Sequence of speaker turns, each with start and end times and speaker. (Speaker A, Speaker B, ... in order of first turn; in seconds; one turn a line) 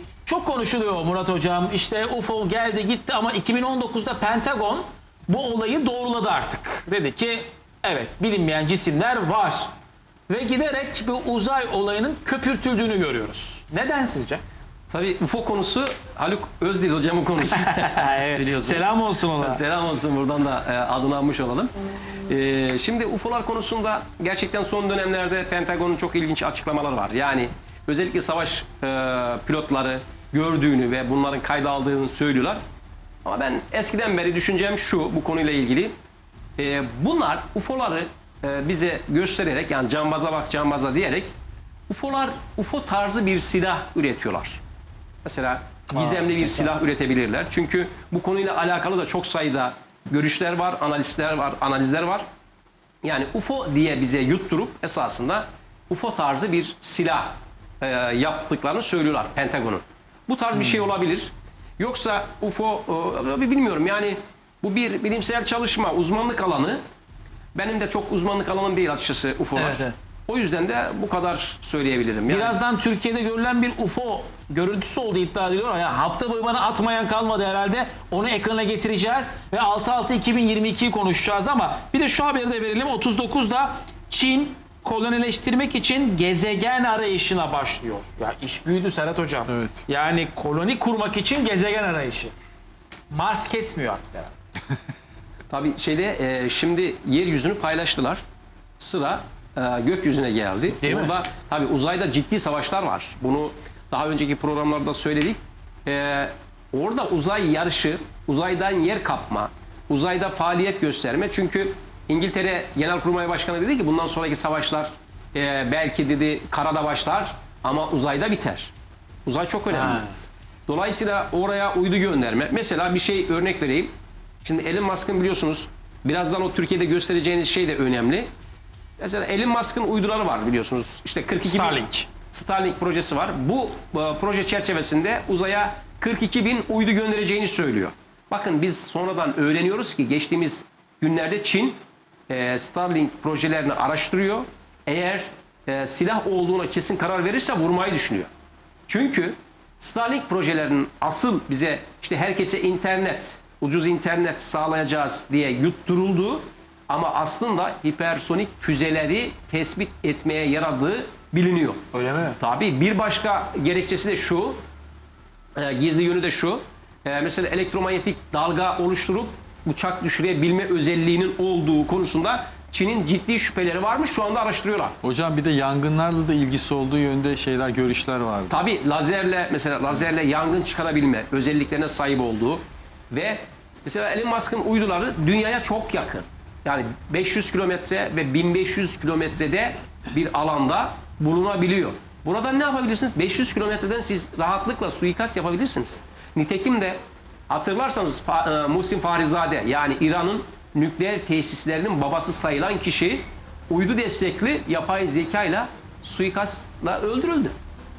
Speaker A: 0.3-9.7
Speaker A: 10.3-14.4
Speaker B: 14.9-32.6
Speaker A: 17.8-19.6
Speaker B: 33.2-35.9
Speaker B: 36.6-41.3
Speaker B: 41.9-44.6
Speaker B: 45.2-52.3
Speaker A: 46.0-46.4
Speaker B: 53.0-66.8
Speaker B: 67.5-72.6
Speaker A: 69.6-69.9
Speaker A: 72.3-92.3
Speaker C: 89.5-89.8
Speaker A: 93.1-94.3
Speaker B: 95.5-98.2
Speaker B: 98.8-118.7
Speaker A: 100.7-101.2
Speaker B: 119.3-120.0
Speaker A: 119.7-120.1
Speaker B: 120.7-123.9
Speaker B: 124.4-128.3
Speaker B: 129.0-148.3
Speaker A: 131.4-132.1
Speaker B: 148.9-161.8
Speaker A: 161.9-162.4
Speaker B: 162.4-164.6
Speaker B: 165.6-174.9
Speaker C: 175.0-178.6
Speaker B: 178.5-207.6